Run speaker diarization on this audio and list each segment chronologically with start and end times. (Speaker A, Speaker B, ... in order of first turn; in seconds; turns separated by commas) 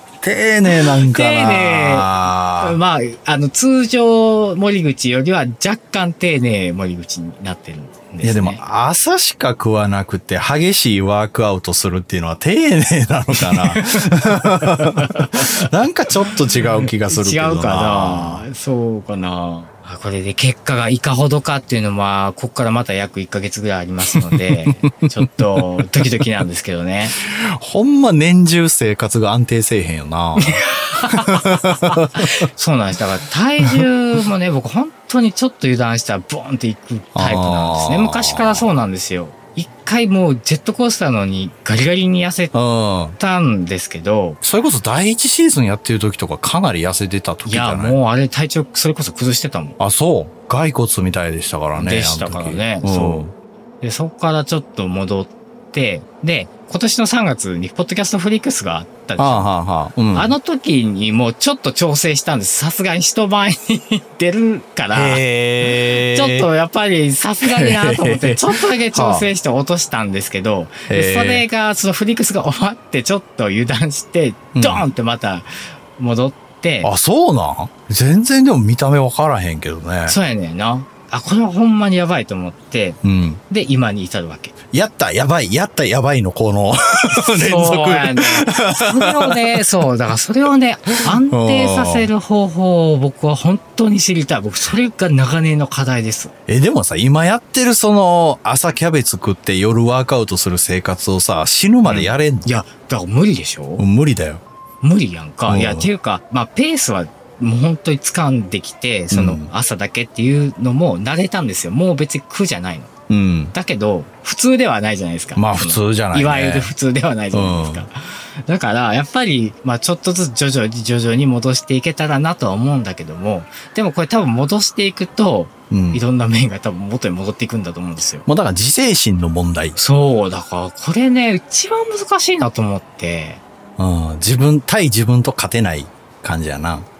Speaker A: 0.2-2.8, Speaker B: 0.8-8.6, Speaker A: 8.2-18.5, Speaker B: 13.3-15.7, Speaker B: 16.8-27.1, Speaker A: 24.1-25.8, Speaker A: 27.2-32.5, Speaker B: 30.4-42.5, Speaker A: 33.6-33.9, Speaker A: 37.1-38.7, Speaker A: 42.5-43.2, Speaker B: 43.2-44.4, Speaker A: 44.4-48.0, Speaker B: 47.4-49.8, Speaker A: 49.8-53.3, Speaker B: 51.8-53.2, Speaker B: 53.8-59.5, Speaker A: 59.2-60.3, Speaker B: 60.1-76.9, Speaker A: 64.9-66.5, Speaker A: 67.4-69.3, Speaker A: 70.9-71.4, Speaker A: 74.5-74.8, Speaker A: 76.8-80.2, Speaker B: 80.0-84.5, Speaker A: 83.0-83.4, Speaker A: 84.7-89.7, Speaker B: 87.1-96.3, Speaker A: 91.1-92.1, Speaker A: 96.5-102.5, Speaker B: 101.8-103.8, Speaker A: 103.8-104.4, Speaker B: 104.8-112.9, Speaker A: 105.5-105.9, Speaker A: 109.1-109.5, Speaker A: 113.1-113.5, Speaker B: 113.5-128.2, Speaker A: 115.3-116.7, Speaker A: 117.3-117.8, Speaker A: 125.7-126.0, Speaker A: 128.2-129.8, Speaker B: 129.8-133.4, Speaker A: 133.8-136.9